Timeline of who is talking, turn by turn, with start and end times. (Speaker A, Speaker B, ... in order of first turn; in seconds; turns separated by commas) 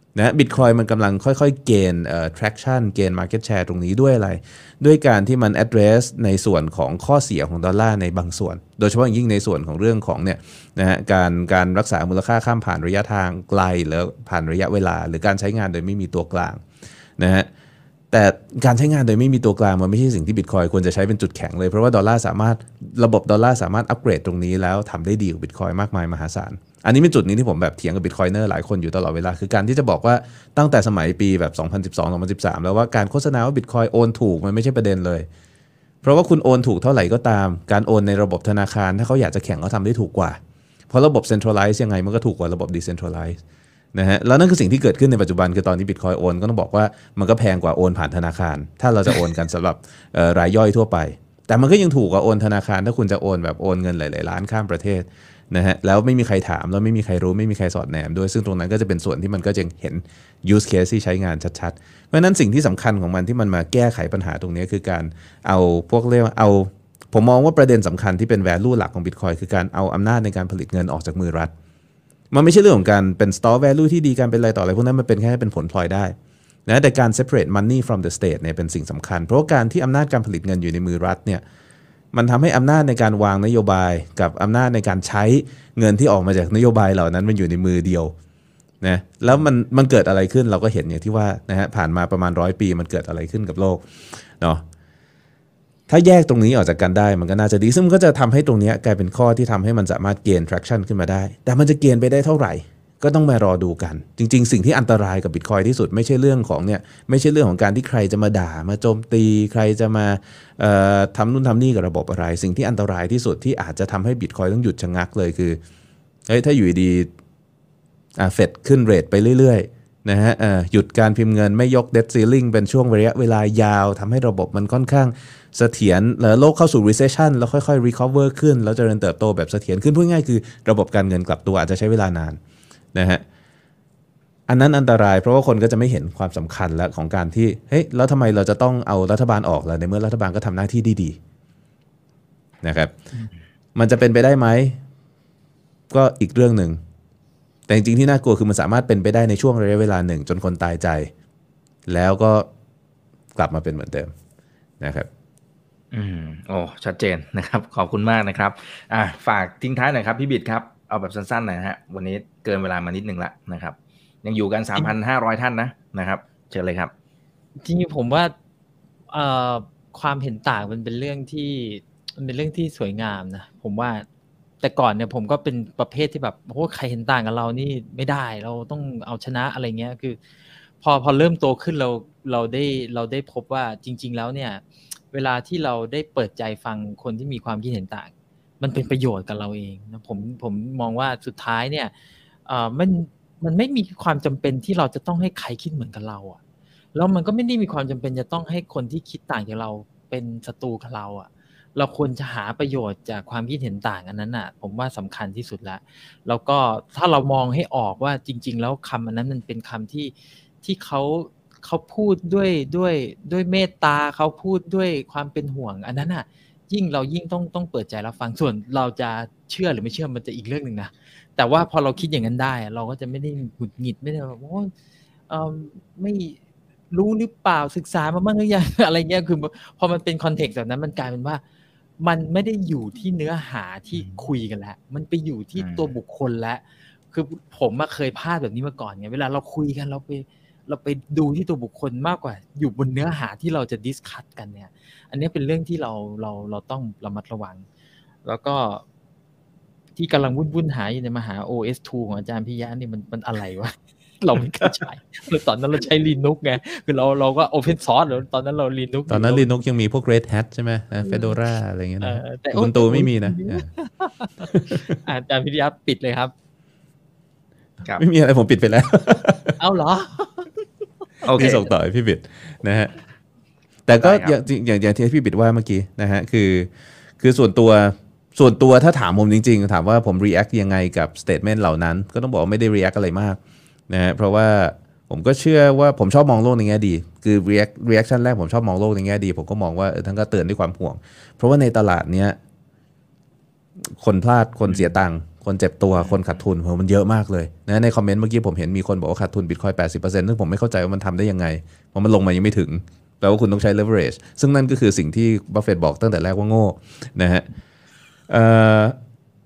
Speaker A: 0.1-16.6, Speaker A: 17.2-17.5, Speaker A: 18.1-35.3, Speaker A: 36.0-40.4, Speaker A: 40.9-43.4, Speaker A: 43.9-71.5, Speaker A: 72.3-76.2, Speaker A: 76.7-81.4, Speaker A: 82.1-88.1, Speaker A: 88.8-94.6, Speaker A: 95.9-115.6, Speaker A: 116.3-117.1, Speaker A: 118.2-132.4, Speaker A: 132.9-133.2, Speaker A: 134.5-141.2, Speaker A: 142.6-142.9, Speaker A: 143.8-144.8, Speaker A: 145.9-146.8, Speaker A: 147.7-151.1, Speaker A: 151.9-152.5, Speaker A: 153.4-154.1, Speaker A: 154.8-155.1, Speaker B: 155.9-166.9, Speaker C: 167.6-168.3, Speaker C: 169.1-174.1, Speaker C: 174.6-191.9, Speaker C: 192.5-196.4, Speaker C: 196.9-224.7, Speaker C: 225.3-226.4, Speaker C: 226.9-231.4, Speaker C: 232.0-247.7, Speaker B: 234.0-234.2, Speaker B: 235.6-235.9, Speaker C: 248.2-248.8, Speaker C: 250.0-259.5, Speaker A: 259.1-263.7, Speaker C: 261.0-261.3, Speaker C: 262.0-266.3, Speaker A: 264.5-264.9, Speaker A: 268.0-269.6, Speaker C: 269.6-270.5, Speaker B: 271.2-271.6, Speaker A: 271.3-272.9, Speaker C: 271.4-271.7, Speaker A: 273.9-292.4, Speaker B: 274.0-274.4, Speaker A: 293.9-307.4, Speaker B: 294.7-295.0, Speaker B: 296.0-296.4, Speaker A: 308.3-309.0